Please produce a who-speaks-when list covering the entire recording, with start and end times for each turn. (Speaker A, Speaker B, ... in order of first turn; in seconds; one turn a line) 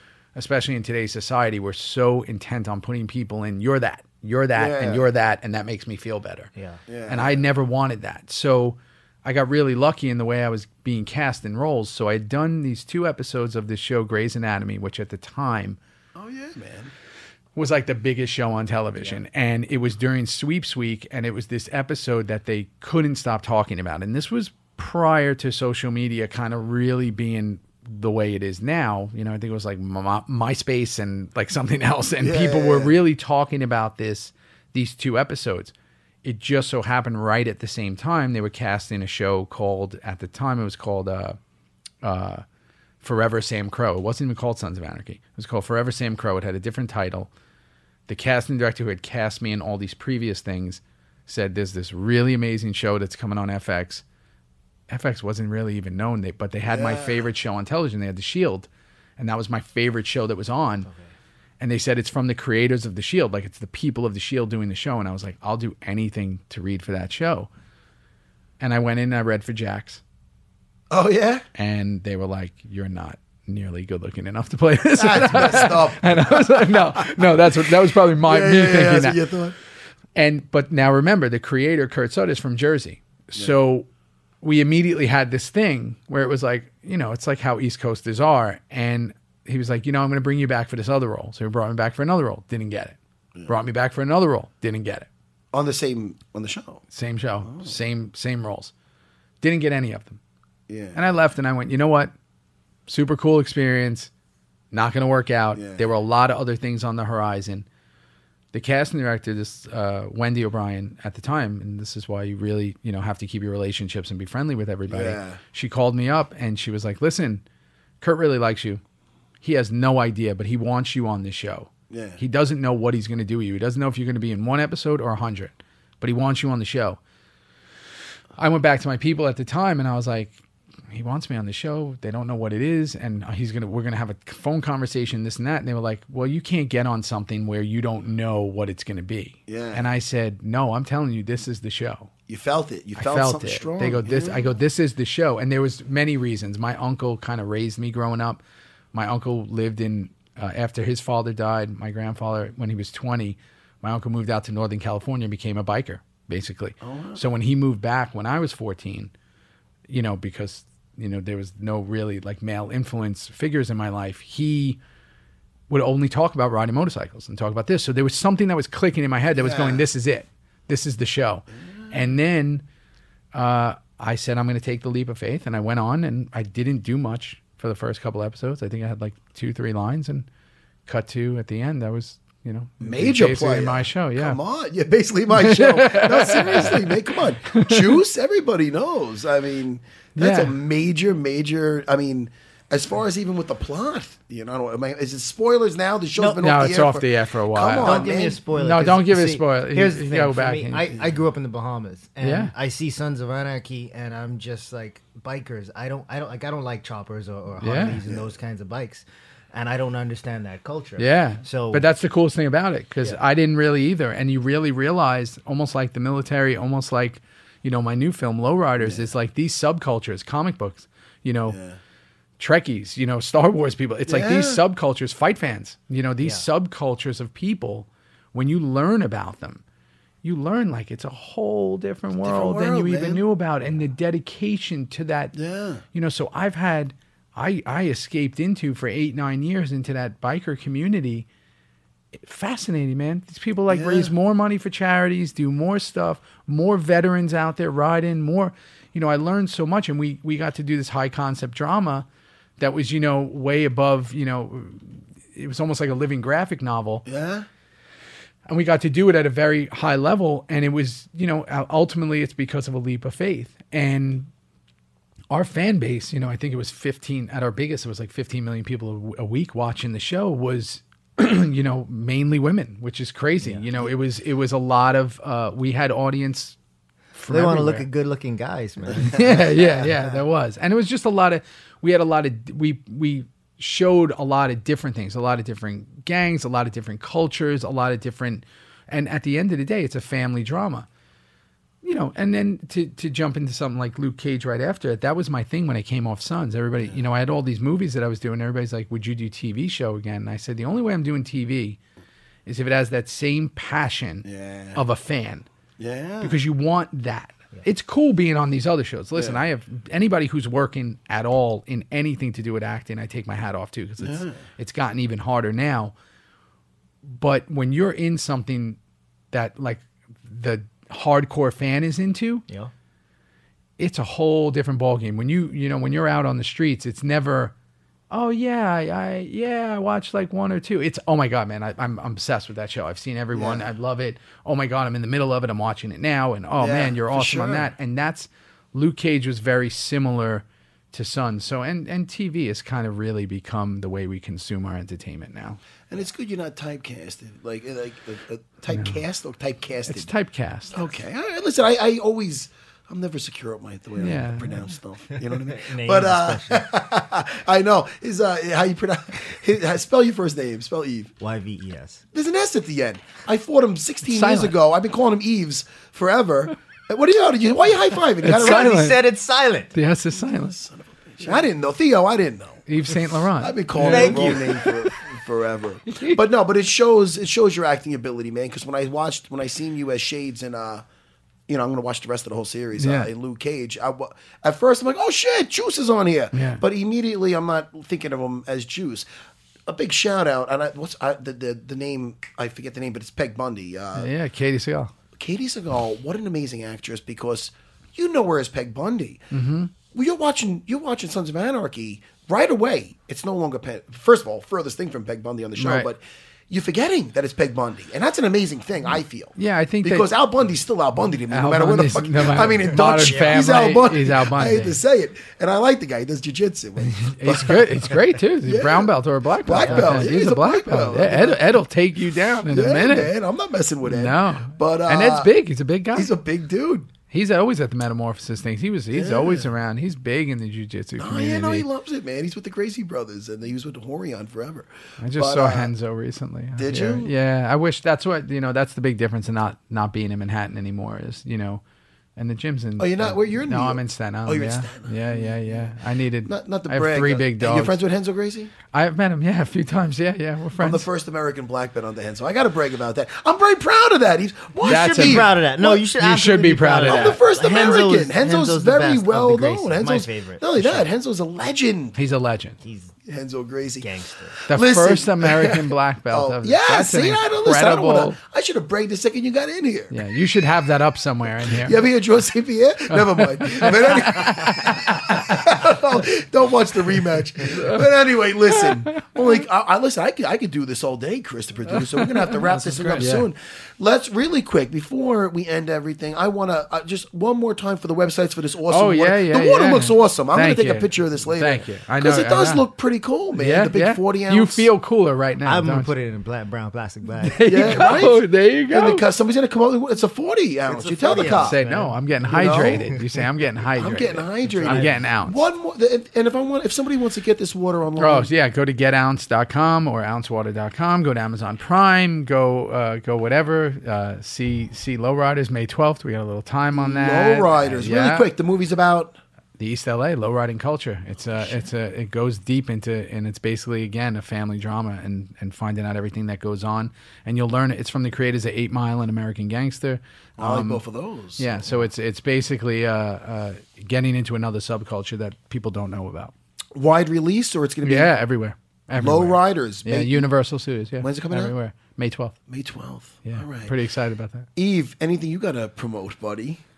Speaker A: 0.3-6.5
Speaker B: 4.5-5.1
Speaker C: 6.6-6.8
Speaker B: 6.9-7.5
Speaker A: 7.1-15.8
Speaker B: 16.1-16.9
Speaker A: 17.6-35.7
Speaker B: 32.2-33.0
Speaker A: 36.2-41.4
Speaker A: 42.0-42.4
Speaker A: 43.0-47.3
Speaker A: 48.1-54.0
Speaker A: 54.9-60.9
Speaker B: 56.7-57.3
Speaker C: 60.9-61.1
Speaker A: 61.6-67.5
Speaker A: 68.6-70.0
Speaker B: 70.9-71.4
Speaker A: 71.6-79.2
Speaker B: 75.0-79.6
Speaker A: 80.1-83.9
Speaker A: 84.4-95.1
Speaker B: 95.5-96.8
Speaker A: 96.9-98.7
Speaker B: 97.4-97.7
Speaker A: 99.4-100.2
Speaker B: 100.7-101.0
Speaker A: 100.9-102.1
Speaker A: 102.9-104.1
Speaker A: 104.7-107.7
Speaker B: 105.5-105.8
Speaker A: 108.5-117.4
Speaker B: 114.9-115.4
Speaker A: 118.0-118.8
Speaker A: 119.4-127.0
Speaker B: 121.9-122.2
Speaker A: 128.4-130.4
Speaker A: 130.9-142.1
Speaker B: 139.5-139.9
Speaker B: 142.3-144.5
Speaker A: 143.0-148.4
Speaker A: 148.9-159.1
Speaker B: 156.8-157.2
Speaker A: 159.9-164.8
Speaker A: 165.7-172.6
Speaker B: 169.3-169.8
Speaker B: 171.6-172.2
Speaker A: 173.3-180.3
Speaker A: 180.8-184.4
Speaker B: 182.8-198.4
Speaker A: 185.3-188.0
Speaker A: 190.2-190.6
Speaker A: 196.4-200.9
Speaker C: 197.8-211.8
Speaker A: 202.2-202.5
Speaker A: 207.6-208.0
Speaker A: 211.0-221.6
Speaker B: 218.8-219.1
Speaker B: 221.5-221.8
Speaker A: 222.4-229.6
Speaker B: 224.1-224.6
Speaker A: 230.2-235.3
Speaker B: 232.2-233.2
Speaker B: 235.3-235.8
Speaker A: 235.9-241.3
Speaker A: 242.2-252.1
Speaker B: 243.7-244.1
Speaker A: 252.6-257.0
Speaker B: 257.1-257.5
Speaker A: 258.5-264.3
Speaker A: 265.3-276.6
Speaker A: 277.1-277.9
Speaker C: 277.3-280.2
Speaker A: 279.0-290.9
Speaker B: 279.5-279.9
Speaker A: 291.8-301.8
Speaker A: 302.4-305.4
Speaker B: 304.2-304.8
Speaker B: 305.8-306.4
Speaker A: 306.2-315.9
Speaker B: 309.1-309.4
Speaker B: 314.0-314.4
Speaker A: 317.1-318.8
Speaker A: 319.3-322.4
Speaker A: 323.8-327.5
Speaker A: 328.1-345.6
Speaker B: 333.4-333.7
Speaker B: 336.6-337.8
Speaker B: 345.9-350.1
Speaker A: 348.7-349.0
Speaker A: 349.9-350.8
Speaker B: 350.7-361.1
Speaker A: 353.9-354.6
Speaker C: 355.3-356.7
Speaker C: 361.2-362.0
Speaker B: 362.1-368.8
Speaker A: 364.1-364.6
Speaker A: 368.2-369.0
Speaker C: 368.3-369.7
Speaker A: 369.7-370.6
Speaker B: 370.1-372.7
Speaker A: 372.7-374.9
Speaker B: 373.4-380.9
Speaker C: 373.8-374.6
Speaker B: 381.5-389.1
Speaker A: 382.8-383.1
Speaker A: 386.3-386.6
Speaker B: 389.7-394.1
Speaker A: 393.9-394.9
Speaker B: 395.2-399.2
Speaker A: 399.3-399.7
Speaker B: 399.9-421.6
Speaker A: 405.6-405.9
Speaker A: 409.4-410.1
Speaker A: 411.3-414.8
Speaker C: 413.1-413.5
Speaker A: 416.8-423.1
Speaker C: 419.6-420.1
Speaker B: 422.5-425.3
Speaker A: 423.8-426.1
Speaker B: 425.9-426.9
Speaker A: 427.1-431.7
Speaker B: 428.9-429.5
Speaker B: 431.0-435.7
Speaker A: 435.0-441.6
Speaker B: 436.6-437.1
Speaker A: 442.1-447.8
Speaker B: 442.8-448.5
Speaker A: 448.7-450.9
Speaker B: 450.6-455.9
Speaker A: 454.6-455.3
Speaker C: 454.6-460.9
Speaker A: 455.9-457.2
Speaker B: 456.9-462.0
Speaker A: 461.9-462.6
Speaker C: 462.6-462.9
Speaker B: 463.1-463.9
Speaker C: 463.8-464.4
Speaker B: 464.5-470.0
Speaker A: 464.5-468.2
Speaker A: 469.9-471.8
Speaker B: 471.4-494.7
Speaker A: 472.9-475.3
Speaker A: 477.5-477.9
Speaker A: 478.5-479.4
Speaker A: 481.7-483.3
Speaker A: 488.7-492.7
Speaker A: 493.3-495.9
Speaker C: 495.4-497.9
Speaker A: 497.2-499.1
Speaker B: 497.4-501.6
Speaker C: 500.6-503.0
Speaker A: 501.2-505.4
Speaker B: 502.3-503.0
Speaker B: 503.7-508.3
Speaker C: 504.6-504.9
Speaker A: 508.0-518.3
Speaker B: 516.7-519.2
Speaker A: 519.6-530.8
Speaker B: 530.4-531.9
Speaker A: 531.4-536.3
Speaker B: 536.7-538.1
Speaker A: 537.8-542.4
Speaker B: 539.0-540.3
Speaker B: 541.0-541.6
Speaker B: 542.5-543.8
Speaker A: 543.2-544.5
Speaker B: 544.6-546.6